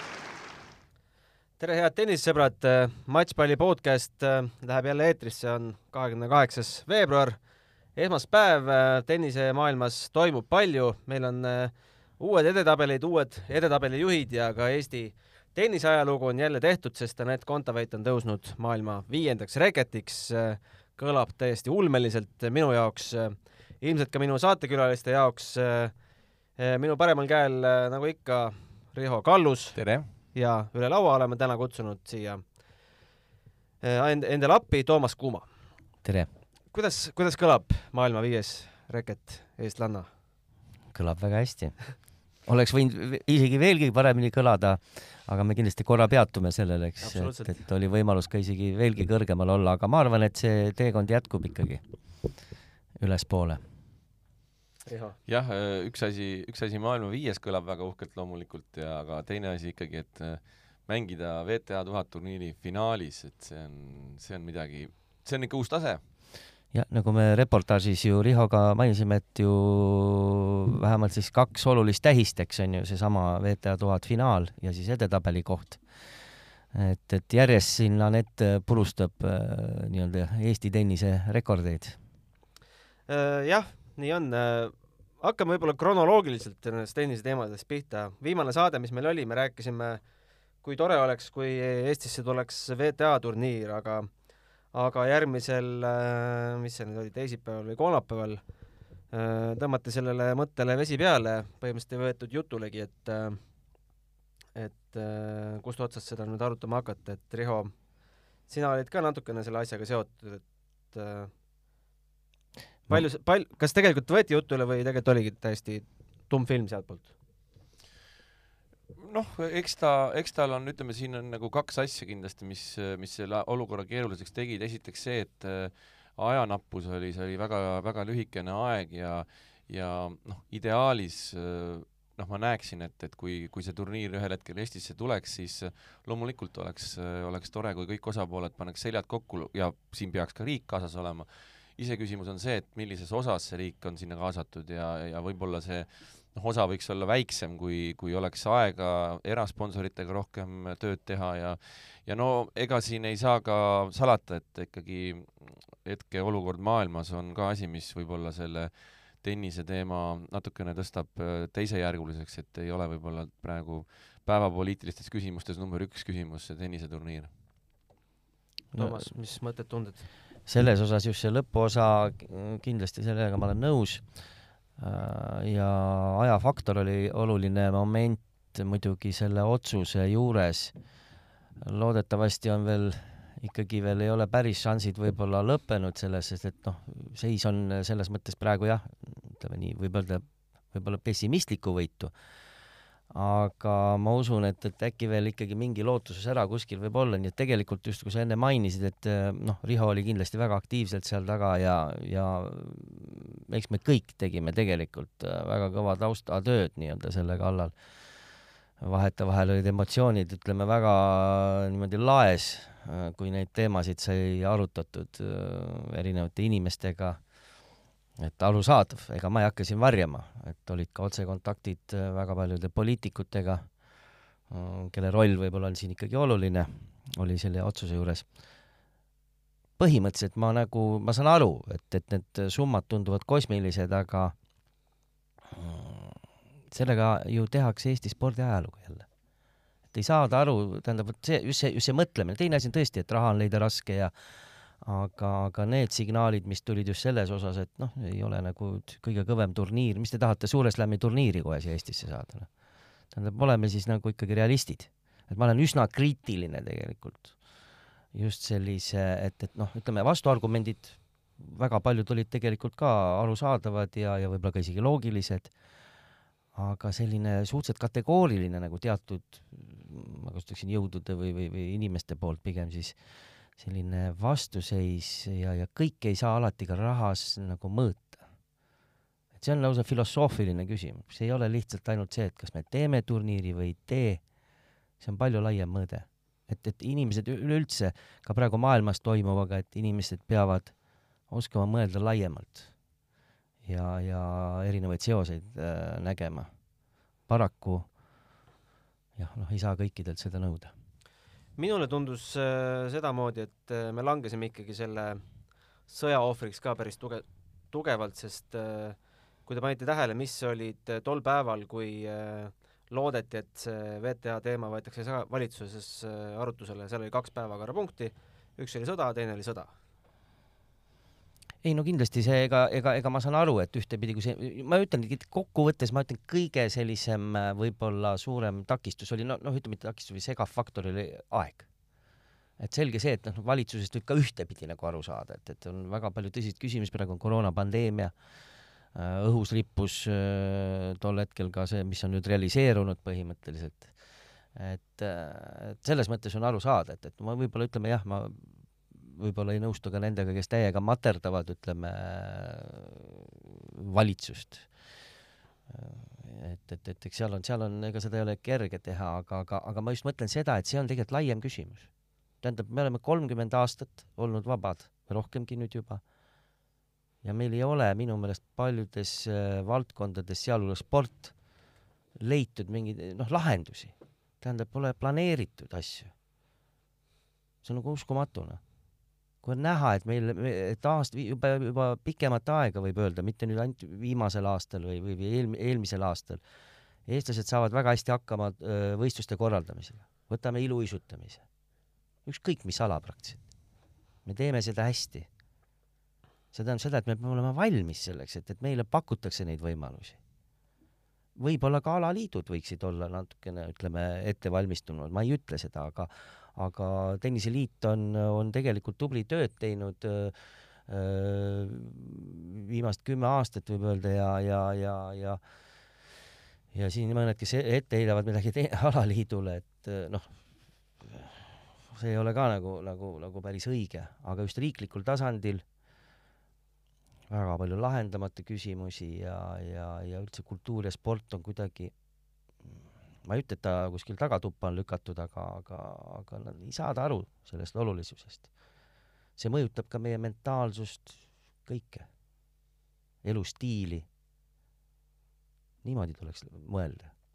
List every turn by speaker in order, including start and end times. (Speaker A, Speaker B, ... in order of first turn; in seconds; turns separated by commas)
Speaker A: 1.6-7.4, Speaker A: 8.0-32.5, Speaker B: 29.8-30.1, Speaker A: 33.8-35.5, Speaker C: 36.0-36.3, Speaker A: 36.7-40.1, Speaker C: 40.9-51.8, Speaker A: 47.0-47.6, Speaker C: 53.0-53.6, Speaker A: 54.9-55.2, Speaker B: 55.3-66.0, Speaker C: 66.7-75.8, Speaker C: 76.7-82.0, Speaker A: 83.1-90.0, Speaker A: 90.6-94.2, Speaker A: 94.7-98.4, Speaker A: 99.1-103.4, Speaker A: 104.5-107.8, Speaker A: 108.5-111.3, Speaker A: 112.9-117.1, Speaker B: 119.0-167.3, Speaker C: 168.7-169.1, Speaker A: 168.8-170.1, Speaker C: 170.5-174.3, Speaker C: 174.8-180.7, Speaker C: 181.6-192.1, Speaker C: 193.1-207.8, Speaker C: 208.8-217.3, Speaker C: 218.2-223.8, Speaker C: 224.5-228.4, Speaker C: 229.8-234.3, Speaker C: 235.5-239.1, Speaker C: 239.9-244.1, Speaker C: 244.8-252.5, Speaker C: 253.1-257.4, Speaker C: 258.1-265.5, Speaker C: 266.5-273.0, Speaker C: 273.5-278.2, Speaker C: 279.4-284.2, Speaker C: 285.0-290.7, Speaker C: 291.3-292.7, Speaker C: 293.6-296.5, Speaker C: 297.3-297.9, Speaker C: 299.2-300.7, Speaker A: 301.6-305.2, Speaker A: 305.9-319.7, Speaker C: 321.6-331.7, Speaker C: 332.6-338.1, Speaker C: 338.9-343.9, Speaker C: 344.5-354.7, Speaker C: 355.7-361.9, Speaker C: 362.4-366.0, Speaker C: 367.2-371.3, Speaker C: 372.2-376.1, Speaker C: 377.6-378.6, Speaker C: 379.4-386.4, Speaker C: 387.1-391.4, Speaker C: 392.2-393.4, Speaker C: 394.2-395.3, Speaker C: 396.5-400.2, Speaker C: 401.4-415.4, Speaker C: 416.7-420.3, Speaker C: 421.0-425.6, Speaker C: 427.3-431.9, Speaker C: 432.6-438.5, Speaker C: 439.4-442.1, Speaker C: 443.2-444.1, Speaker C: 445.8-447.1